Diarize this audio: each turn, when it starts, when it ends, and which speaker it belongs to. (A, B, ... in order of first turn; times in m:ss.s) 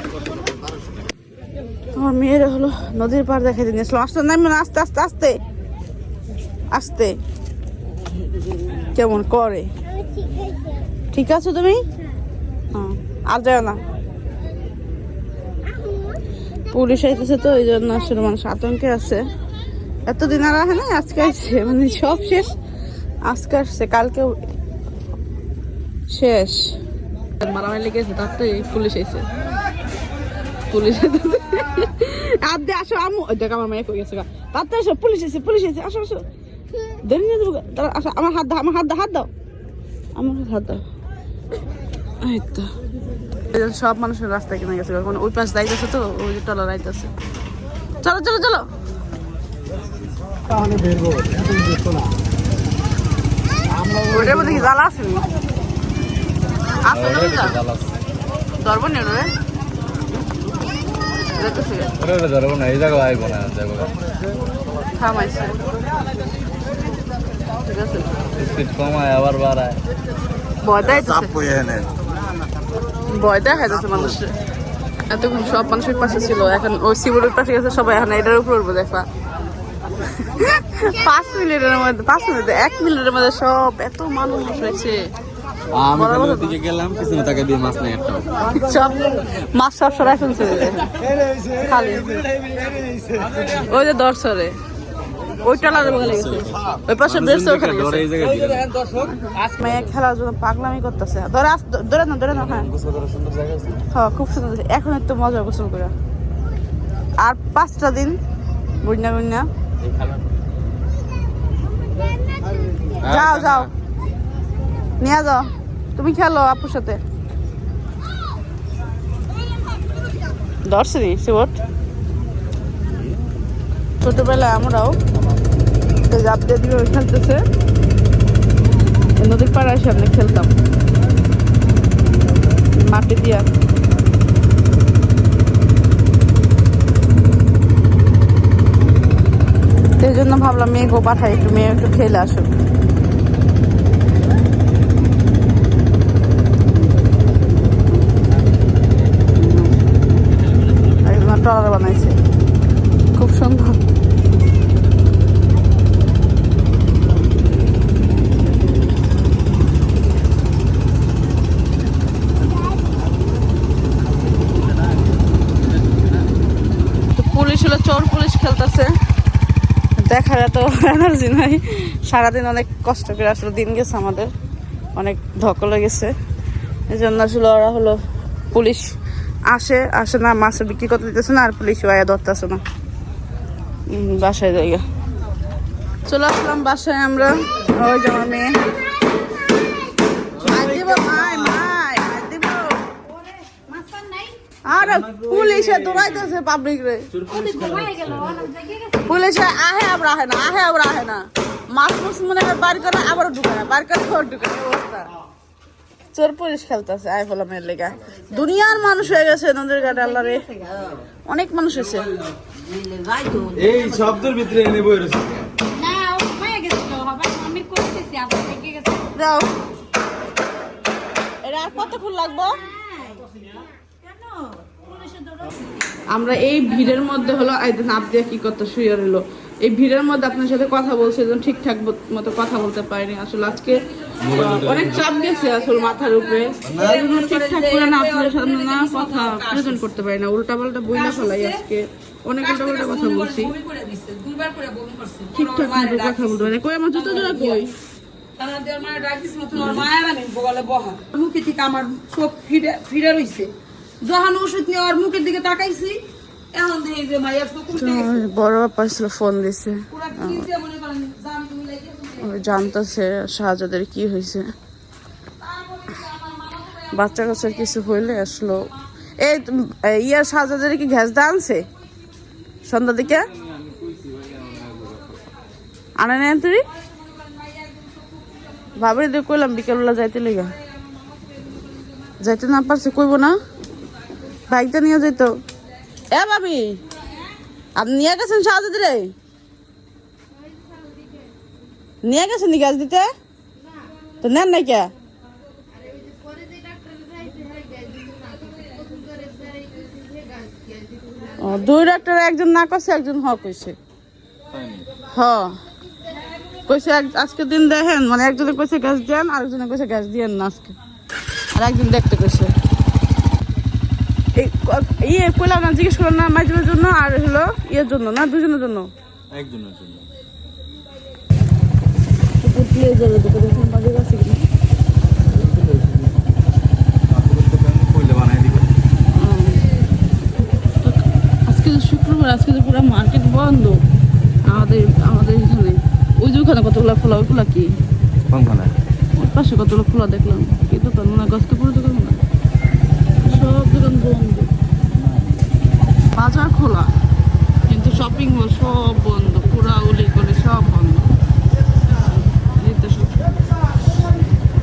0:01.9-0:05.4 A
0:06.7-0:07.1 A
0:08.9-0:09.7 A
0:11.1-0:11.8 A
0:12.7-0:13.8 A
0:16.7-0:19.2 A
0:20.1-0:22.5 A
0:23.2-0:24.4 A
0:26.1-0:26.8 A
0:27.4-0:29.3 A
0:30.7-0:36.2 A
0:37.0-0:39.3 A
0:40.2-0:40.8 A
0:42.2-0:42.7 A
0:43.5-0:47.1 A
0:48.0-0:48.6 A
0:50.6-0:51.8 B
0:54.0-0:55.3 A
0:56.8-0:57.5 A
0:56.9-0:57.9 C
0:58.6-0:59.3 A
1:01.3-1:01.9 A
1:02.0-1:03.9 C
1:05.0-1:05.5 A
1:07.6-1:08.1 A
1:08.4-1:09.8 C
1:10.6-1:11.5 A
1:13.1-1:14.3 A
1:15.1-1:19.0 A
1:20.2-1:25.1 A
1:25.7-1:28.3 C
1:25.9-1:26.5 A
1:28.4-1:30.9 A
1:31.6-1:32.2 A
1:33.2-1:33.6 C
1:33.6-1:34.5 A
1:35.4-1:38.1 A
1:35.6-1:39.9 C
1:39.0-1:42.7 A
1:42.3-1:43.8 C
1:43.9-1:45.9 A
1:47.2-1:48.2 A
1:48.8-1:49.4 A
1:49.8-1:50.2 C
1:53.0-1:53.7 C
1:53.1-1:53.7 A
1:55.0-1:57.0 A
2:00.7-2:01.5 A
2:04.0-2:05.0 A
2:06.1-2:07.4 A
2:09.2-2:10.5 A
2:12.8-2:13.5 A
2:20.0-2:22.5 A
2:29.4-2:29.7 A
2:31.0-2:32.2 A
2:33.1-2:33.8 A
2:47.1-2:48.9 A
2:50.0-2:54.3 A
2:55.0-2:56.1 A
2:56.9-2:58.0 A
2:58.5-2:58.8 A
2:59.5-3:02.6 A
3:03.9-3:04.8 A
3:06.1-3:08.5 A
3:10.4-3:10.9 C
3:10.4-3:12.8 A
3:13.5-3:14.4 D
3:14.6-3:17.1 A
3:17.1-3:18.3 C
3:17.3-3:19.1 D
3:19.0-3:25.0 A
3:26.1-3:30.4 A
3:30.2-3:30.8 D
3:31.3-3:32.1 A
3:32.7-3:33.4 D
3:33.3-3:34.2 B
3:33.5-3:35.5 C
3:35.7-3:39.1 D
3:39.1-3:39.5 A
3:41.4-3:42.6 A
3:46.1-4:03.5 A
3:54.2-3:55.1 C
3:54.3-3:59.8 D
3:56.6-3:56.9 C
4:00.9-4:01.6 D
4:02.4-4:07.6 D
4:05.3-4:07.7 A
4:08.4-4:13.5 D
4:09.5-4:09.9 A
4:14.0-4:16.0 D
4:16.5-4:18.2 D
4:17.7-4:20.4 A
4:19.9-4:22.4 D
4:22.2-4:24.4 A
4:25.4-4:26.8 D
4:26.9-4:31.6 A
4:32.7-4:33.3 A
4:33.0-4:35.1 C
4:36.0-4:36.6 A
4:38.8-4:40.5 A
4:42.2-4:43.4 A
4:44.5-4:45.3 A
4:46.1-4:46.8 A
4:47.8-4:49.1 A
4:52.0-4:53.0 A
4:54.2-4:54.9 A
5:01.4-5:03.8 A
5:04.5-5:04.9 C
5:05.1-5:05.5 A
5:06.7-5:10.7 A
5:11.5-5:12.5 A
5:14.4-5:18.9 A
5:19.3-5:20.0 C
5:22.4-5:24.4 A
5:27.1-5:28.7 C
5:29.1-5:29.6 A
5:31.5-5:33.8 A
5:34.4-5:37.7 A
5:38.3-5:38.7 C
5:39.2-5:42.2 A
5:43.2-5:44.5 A
5:46.1-5:46.9 A
5:47.7-5:51.1 A
5:52.4-5:53.2 A